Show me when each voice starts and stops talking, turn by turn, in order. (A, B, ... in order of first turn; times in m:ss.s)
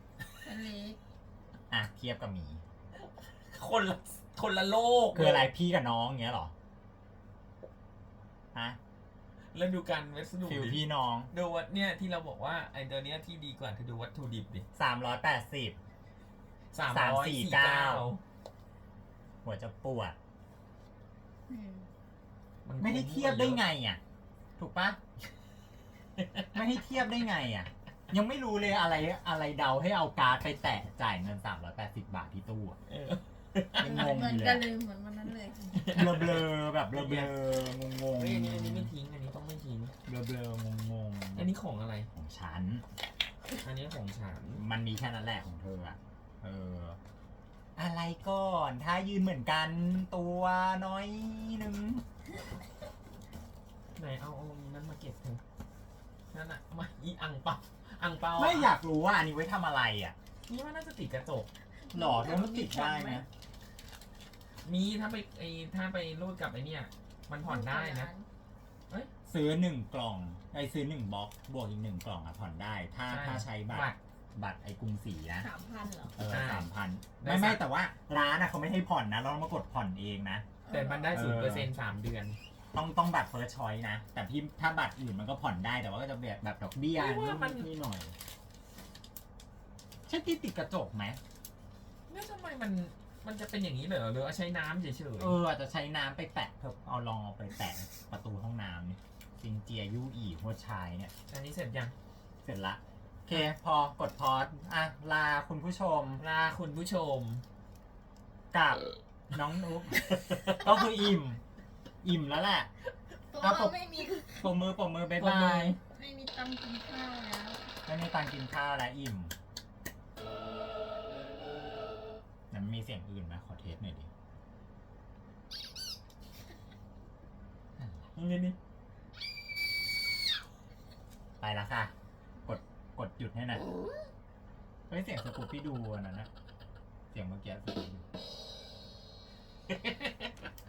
0:00.4-0:01.0 A
0:01.7-0:02.6 B
0:03.0-0:05.5 C
0:05.1-0:06.5 B
0:08.5-0:08.8 B
0:09.5-0:14.6 C
0:10.4-0:11.3 B
0:14.7-0:15.8 B
0:16.7-0:18.2 C
0:16.9-0:18.1 B
0:19.4-0:20.2 B
0:21.5-0:21.9 A
0:22.6-0:23.6 C
0:22.8-0:24.0 B
0:24.6-0:25.0 B
0:26.2-0:26.5 C
0:26.5-0:32.8 B
0:32.9-0:34.1 C
0:33.8-0:34.7 B
0:33.8-0:35.9 A
0:35.7-0:37.4 C
0:35.9-0:38.9 B
0:38.2-0:39.9 C
0:40.0-0:41.5 B
0:41.4-0:42.1 C
0:42.1-0:42.8 B
0:43.5-0:44.6 C
0:44.5-0:47.0 B
0:47.8-0:52.0 B
0:54.0-0:55.4 C
0:56.3-0:58.7 C
0:58.4-1:00.2 B
1:00.5-1:01.5 C
1:01.8-1:03.2 A
1:01.9-1:03.3 B
1:04.6-1:08.1 C
1:07.4-1:08.3 A
1:09.3-1:15.5 B
1:13.1-1:14.0 C
1:15.4-1:16.2 A
1:16.2-1:20.4 B
1:16.3-1:17.6 C
1:20.6-1:21.2 A
1:20.7-1:22.4 C
1:21.1-1:21.7 B
1:22.7-1:28.1 B
1:26.9-1:27.7 C
1:30.1-1:31.2 B
1:32.1-1:35.4 C
1:35.2-1:41.1 B
1:41.3-1:41.9 C
1:42.4-1:46.2 B
1:46.2-1:47.4 C
1:48.5-1:51.4 B
1:49.9-1:50.8 C
1:52.0-1:52.7 B
1:53.3-1:54.6 A
1:53.4-1:55.8 B
1:55.2-1:55.8 C
1:55.8-1:57.6 A
1:57.9-1:59.3 B
2:02.5-2:04.1 B
2:08.2-2:08.6 C
2:11.4-2:11.9 B
2:12.4-2:13.6 B
2:14.9-2:16.3 B
2:17.1-2:18.0 B
2:19.7-2:20.1 C